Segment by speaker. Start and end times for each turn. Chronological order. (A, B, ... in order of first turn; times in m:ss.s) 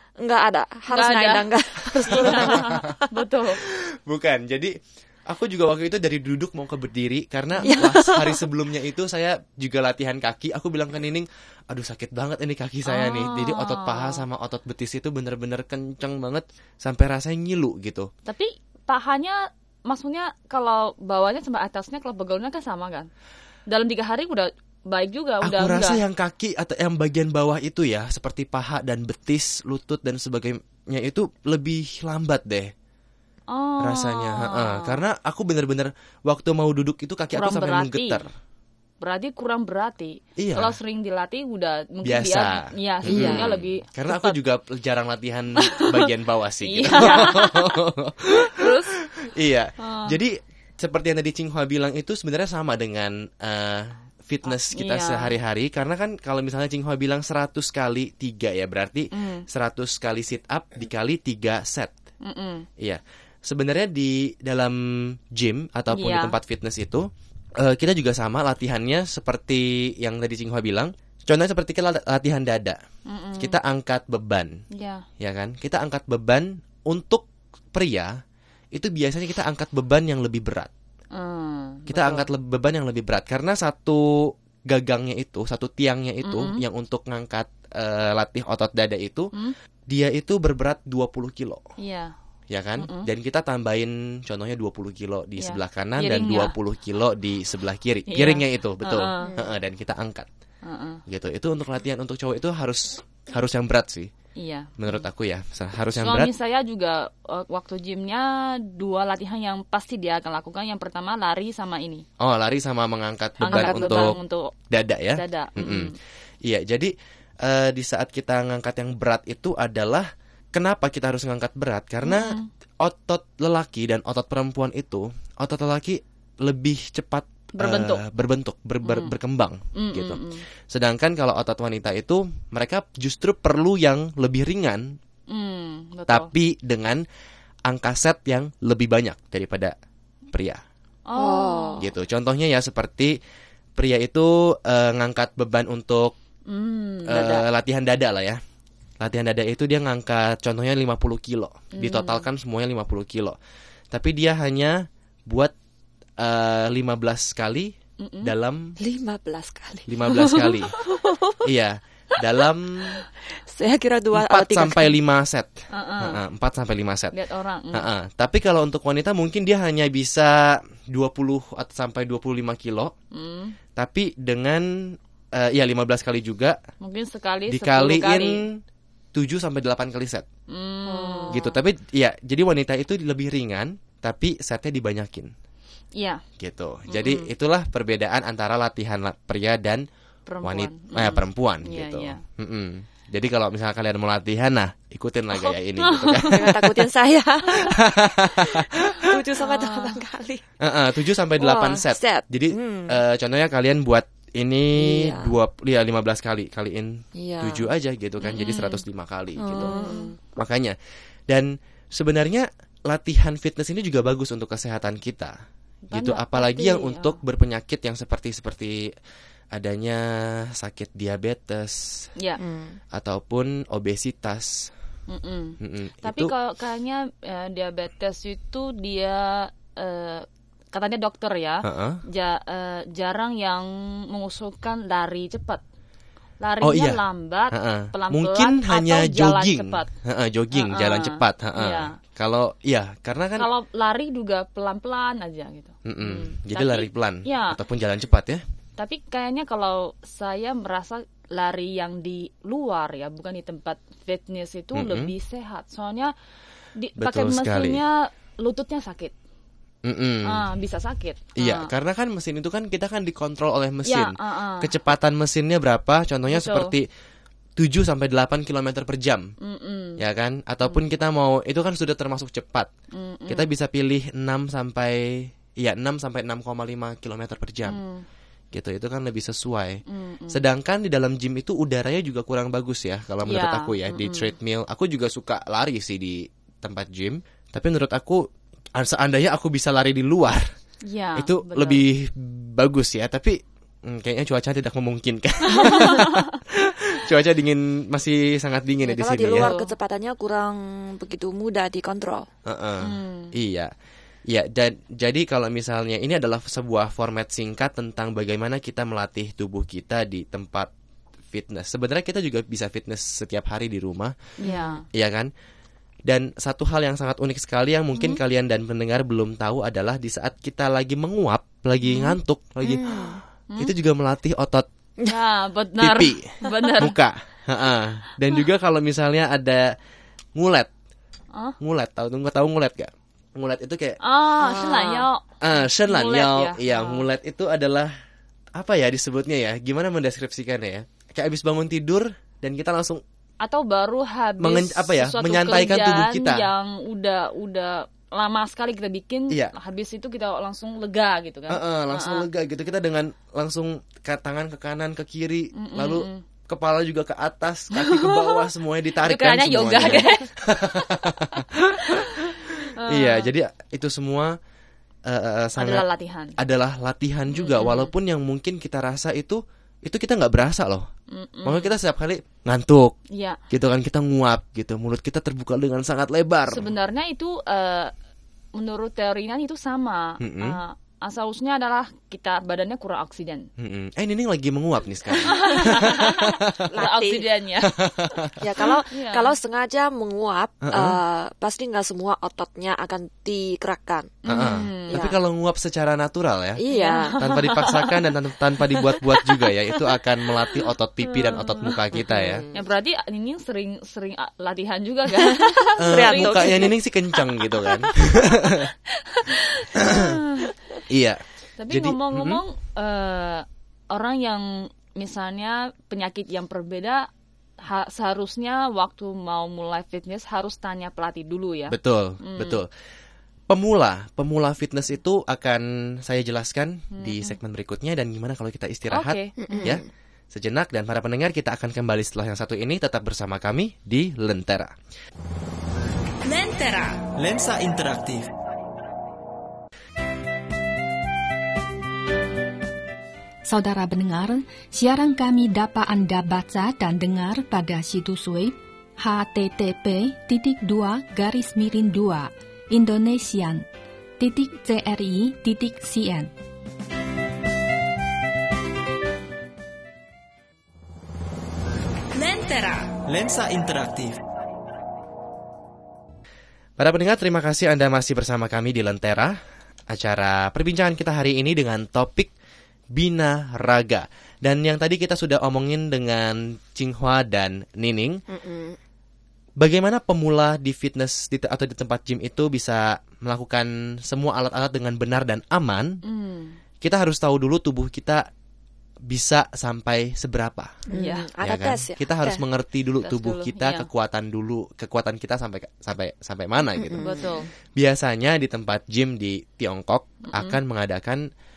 0:00.2-0:03.1 A
0:00.9-0:01.4 B
0:02.0-0:02.9 C
0:02.0-0:03.6 B
0:03.6-0:04.7 C
0:05.3-0:18.1 C
0:07.6-0:08.4 A
0:12.8-0:14.2 B
0:18.2-0:23.1 B
0:23.7-0:26.0 B
0:25.4-0:32.7 C
0:33.5-0:35.0 B
0:33.8-0:38.3 C
0:37.3-0:38.2 B
0:39.0-0:44.4 B
0:40.4-0:40.8 C
0:42.0-1:01.9 C
0:43.1-0:43.5 A
0:45.7-0:46.0 B
0:46.6-0:47.8 B
0:48.4-0:48.9 B
0:49.8-0:50.1 B
0:54.4-0:55.3 B
0:59.1-0:59.4 B
1:02.2-1:02.6 B
1:02.8-1:12.8 C
1:05.9-1:06.3 B
1:13.1-1:13.6 B
1:13.4-1:14.6 C
1:14.7-1:15.0 B
1:15.2-1:18.1 C
1:18.7-1:20.7 C
1:21.1-1:22.2 B
1:21.9-1:29.3 C
1:26.2-1:26.6 B
1:29.9-1:31.6 C
1:31.8-1:32.1 B
1:32.5-1:40.3 C
1:32.8-1:33.1 B
1:35.4-1:36.5 B
1:38.1-1:39.3 B
1:39.2-1:39.6 A
1:40.6-1:41.0 B
1:41.1-1:44.1 C
1:44.4-1:45.1 B
1:44.8-1:46.3 C
1:46.0-1:52.0 B
1:52.2-1:54.2 C
1:53.4-1:54.1 A
1:53.4-1:54.5 B
1:54.7-1:55.9 C
1:55.1-1:55.9 B
1:56.4-2:15.0 C
2:02.0-2:02.5 B
2:07.6-2:08.0 B
2:08.8-2:09.1 B
2:09.8-2:10.4 B
2:15.3-2:16.3 B
2:16.1-2:17.0 C
2:17.6-2:19.7 C
2:20.3-2:20.6 C
2:21.1-2:21.8 B
2:21.2-2:21.8 A
2:21.8-2:23.2 C
2:23.8-2:26.1 C
2:26.5-2:27.4 B
2:27.1-2:28.4 C
2:29.0-2:33.4 C
2:31.7-2:32.2 B
2:33.9-2:35.5 C
2:36.2-2:38.7 C
2:38.0-2:38.3 B
2:38.8-2:40.0 A
2:39.9-2:40.7 C
2:40.2-2:40.5 B
2:40.9-2:41.4 A
2:41.4-2:43.0 C
2:43.4-2:45.0 A
2:44.1-2:47.1 C
2:45.7-2:46.2 B
2:47.1-2:47.8 B
2:47.7-2:52.9 C
2:53.1-2:53.6 B
2:53.8-2:56.6 C
2:56.8-2:58.4 B
2:57.5-2:58.6 C
2:59.1-3:00.2 C
3:00.5-3:01.5 B
3:00.9-3:01.4 A
3:01.3-3:05.3 C
3:06.0-3:06.2 B
3:06.4-3:09.8 C
3:06.9-3:07.3 B
3:10.3-3:12.2 B
3:10.4-3:16.7 C
3:15.8-3:16.4 B
3:16.2-3:17.8 A
3:17.5-3:19.1 C
3:18.4-3:20.4 A
3:19.4-3:20.0 B
3:20.6-3:29.7 C
3:21.4-3:23.0 A
3:24.7-3:25.3 A
3:27.1-3:27.7 A
3:28.2-3:28.8 B
3:29.4-3:30.1 A
3:29.6-3:30.2 B
3:30.3-3:30.8 C
3:31.3-3:35.4 C
3:35.9-3:37.2 B
3:35.9-3:38.9 C
3:39.5-3:42.1 C
3:42.4-3:42.8 A
3:42.9-3:44.7 C
3:45.1-3:55.6 B
3:45.6-3:46.3 C
3:51.6-3:52.0 C
3:56.4-3:59.9 B
3:56.6-3:57.0 C
3:57.5-4:03.5 C
4:00.5-4:01.9 B
4:03.4-4:07.6 B
4:05.8-4:08.4 C
4:08.8-4:16.1 B
4:14.7-4:15.1 C
4:16.8-4:19.1 B
4:17.0-4:17.8 C
4:19.8-4:20.4 C
4:20.2-4:21.7 B
4:21.4-4:26.8 C
4:23.8-4:24.7 B
4:26.3-4:26.7 B
4:27.6-4:29.3 C
4:29.4-4:30.0 B
4:30.0-4:32.7 C
4:32.9-4:33.5 B
4:33.3-4:37.8 C
4:37.6-4:38.0 B
4:38.5-4:48.2 C
4:39.9-4:40.4 B
4:43.2-4:44.3 B
4:48.8-4:50.4 C
4:50.9-4:51.8 B
4:51.2-4:59.5 C
4:55.5-4:56.2 B
4:58.8-5:02.3 A
4:59.3-4:59.7 B
5:02.4-5:03.7 C
5:02.8-5:03.3 B
5:04.3-5:10.7 C
5:11.3-5:14.1 C
5:14.4-5:14.8 B
5:14.9-5:15.3 C
5:16.1-5:24.6 C
5:21.8-5:22.1 B
5:22.6-5:23.2 A
5:25.1-5:26.9 B
5:25.8-5:29.7 C
5:30.4-5:30.7 C
5:31.6-5:34.0 C
5:34.0-5:37.0 B
5:34.4-5:35.0 A
5:35.4-5:37.9 C
5:38.6-5:43.0 C
5:43.4-5:52.3 B
5:44.4-5:46.5 C
5:51.5-6:04.4 C
5:55.6-5:56.2 B
5:57.7-5:58.4 B
5:59.0-6:00.8 B
6:01.4-6:03.3 B
6:05.0-6:05.8 C
6:05.6-6:06.3 B
6:06.4-6:10.9 C
6:07.3-6:07.9 B
6:11.1-6:11.7 B
6:11.4-6:13.0 C
6:13.1-6:13.4 B
6:13.5-6:16.7 C
6:16.5-6:17.9 B
6:18.6-6:23.5 B
6:20.2-6:20.6 C
6:23.6-6:26.6 C
6:25.1-6:27.9 B
6:26.7-6:27.2 A
6:27.8-6:28.3 C
6:28.4-6:35.2 A
6:28.9-6:29.3 B
6:30.6-6:31.0 C
6:34.2-6:35.0 B
6:34.3-6:36.6 C
6:36.6-6:37.2 A
6:36.7-6:37.9 B
6:37.2-6:42.4 C
6:39.0-6:39.4 B
6:41.1-6:41.7 B
6:41.9-6:42.6 A
6:42.5-6:46.7 B
6:45.2-6:46.8 A
6:45.8-6:48.7 C
6:48.5-6:50.5 B
6:49.8-6:50.1 C
6:50.9-6:52.4 C
6:51.6-6:57.1 B
6:57.6-7:02.6 B
7:01.7-7:02.7 C
7:03.5-7:14.7 C
7:06.9-7:07.4 B
7:08.9-7:09.8 B
7:09.4-7:09.8 A
7:16.2-7:18.3 D
7:23.4-7:33.6 E
7:34.2-7:36.3 E
7:42.1-7:44.2 D
7:46.8-7:49.4 C
7:49.9-7:52.3 C
7:52.9-7:58.2 C
7:58.3-7:58.8 A
7:59.6-8:06.0 C
8:06.0-8:06.6 B
8:06.8-8:08.2 C
8:09.1-8:10.9 C
8:10.9-8:12.4 A
8:10.9-8:11.3 B
8:11.4-8:17.2 C
8:13.0-8:13.9 B
8:16.8-8:17.4 A
8:17.0-8:17.4 B
8:17.8-8:21.2 C
8:20.3-8:20.6 B